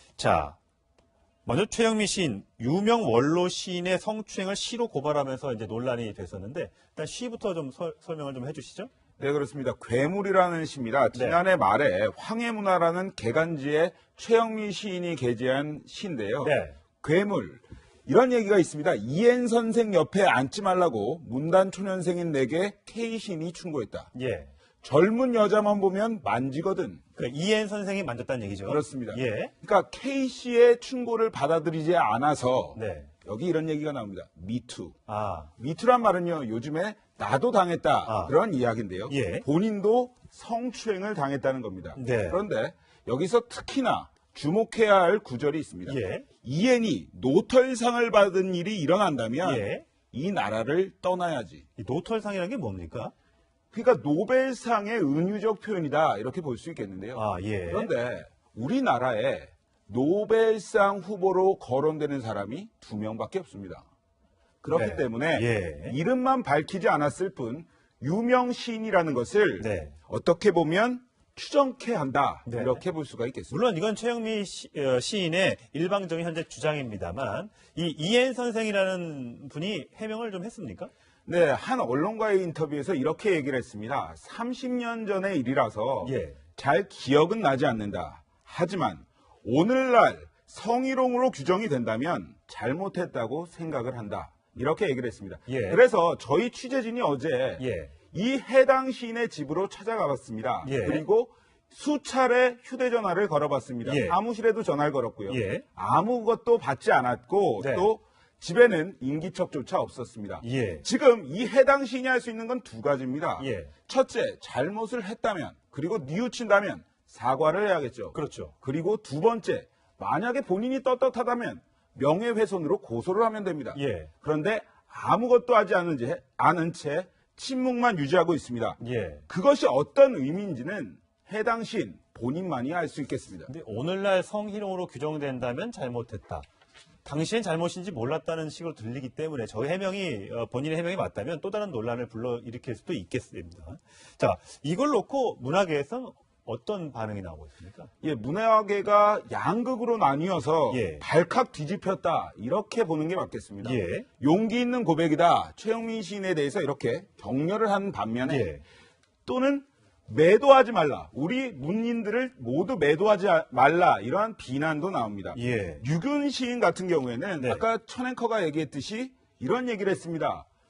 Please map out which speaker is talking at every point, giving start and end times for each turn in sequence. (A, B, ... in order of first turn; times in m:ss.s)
0:00.2-0:00.6 A
0:01.4-0:08.9 A
0:09.2-0:24.1 B
0:11.1-0:11.4 A
0:16.4-0:16.8 A
0:24.1-0:24.5 A
0:24.8-0:27.0 B
0:27.2-0:29.5 A
0:28.7-0:35.0 B
0:32.8-0:33.1 A
0:35.1-0:35.5 A
0:35.6-0:51.6 B
0:38.1-0:38.3 A
0:39.1-0:39.4 A
0:42.0-0:42.4 A
0:45.9-0:46.3 A
0:49.4-0:49.9 A
0:51.8-0:53.1 A
0:53.7-1:03.8 B
0:57.2-0:57.9 A
1:04.6-1:13.6 B
1:04.7-1:06.0 A
1:09.6-1:10.0 A
1:12.5-1:12.8 A
1:13.5-1:20.9 A
1:21.3-2:13.5 B
1:26.0-1:26.4 A
1:35.5-1:35.8 A
1:37.6-1:38.0 A
1:40.6-1:41.0 A
1:43.8-1:44.2 A
1:45.3-1:45.6 A
1:47.6-1:47.9 A
1:50.4-1:50.8 A
1:53.4-1:53.7 A
1:58.1-1:58.5 A
2:03.8-2:04.1 A
2:08.8-2:09.2 A
2:13.5-2:16.5 A
2:17.0-2:27.9 A
2:28.0-2:38.5 B
2:30.7-2:31.0 A
2:33.6-2:34.1 A
2:38.2-2:38.6 A
2:39.3-2:50.5 B
2:45.3-2:45.8 A